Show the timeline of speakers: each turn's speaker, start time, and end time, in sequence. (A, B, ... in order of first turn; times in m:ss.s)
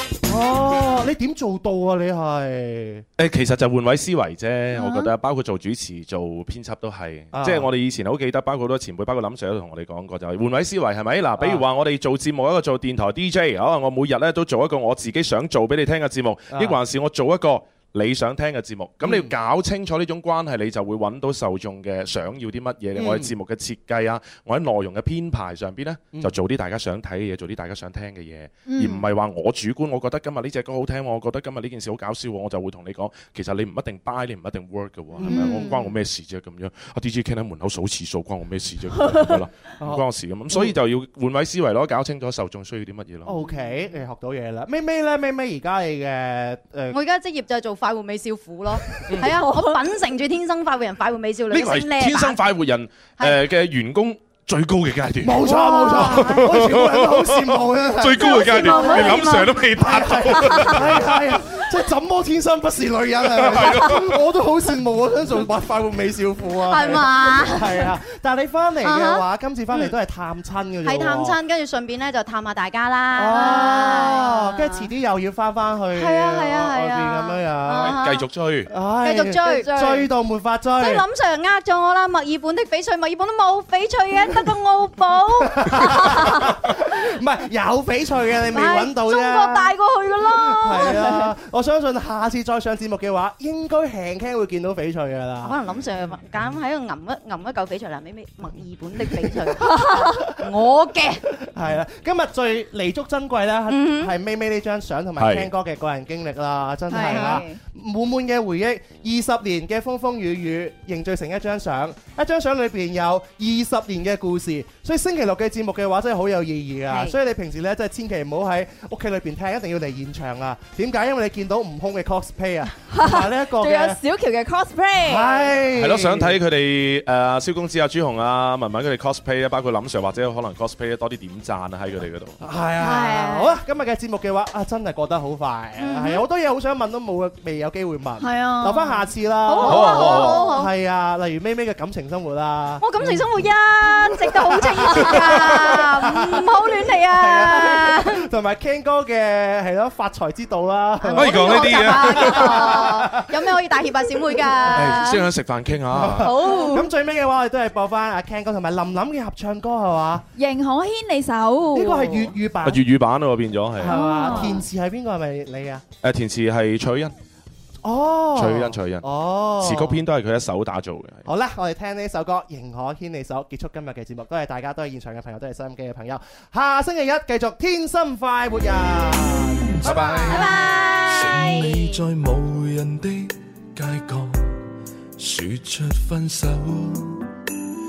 0:00.2-0:03.0 A
0:03.2-0:43.3 B
0:04.7-0:05.1 C
0:07.3-0:07.7 A
0:11.4-0:11.6 A
0:16.5-0:16.8 A
0:19.0-0:19.3 A
0:22.9-0:23.3 A
0:28.6-0:29.1 C
0:35.1-0:35.9 A
0:35.2-0:35.7 C
0:39.0-0:39.2 C
0:39.8-0:40.8 A
0:43.2-0:47.0 A
0:46.9-0:52.4 D
0:49.0-0:49.3 B
0:49.2-0:49.8 C
0:51.5-1:01.4 B
0:55.2-0:58.9 A
0:55.4-0:56.5 C
0:58.2-0:59.6 D
0:58.2-0:59.5 C
0:59.7-1:11.4 A
1:00.4-1:00.7 C
1:03.3-1:04.2 B
1:06.6-1:07.9 D
1:08.8-1:09.2 D
1:10.8-1:14.8 D
1:13.1-1:18.0 A
1:13.3-1:14.2 C
1:15.9-1:18.2 D
1:17.8-1:18.7 B
1:18.7-1:21.0 A
1:19.0-1:20.1 D
1:20.8-1:26.4 D
1:25.5-1:35.6 A
1:28.5-1:31.1 D
1:30.8-1:31.3 C
1:35.4-1:41.3 D
1:39.0-1:39.9 A
1:39.7-1:40.0 C
1:41.4-2:04.0 A
1:43.7-1:44.1 D
1:45.2-1:45.5 B
1:46.9-1:47.6 C
2:02.9-2:05.5 C
2:05.0-2:06.4 A
2:05.7-2:12.4 B
2:12.4-2:22.8 A
2:12.8-2:13.5 D
2:15.9-2:16.2 D
2:18.2-2:19.0 C
2:19.4-2:20.7 D
2:19.6-2:20.5 B
2:22.8-2:28.2 D
2:24.2-2:33.6 A
2:24.9-2:25.7 B
2:31.0-2:35.3 D
2:31.1-2:33.0 B
2:34.6-2:35.0 A
2:34.7-2:36.4 B
2:35.9-2:40.2 A
2:36.2-2:36.9 D
2:36.2-2:36.8 C
2:40.3-2:42.3 C
2:41.7-2:42.8 A
2:42.6-2:44.1 B
2:43.8-2:45.8 A
2:43.8-2:44.6 C
2:46.0-2:47.1 B
2:47.8-2:50.0 A
2:48.3-2:51.2 B
2:51.2-3:00.5 A
2:59.8-3:02.0 D
3:00.2-3:04.5 E
3:05.2-3:07.2 E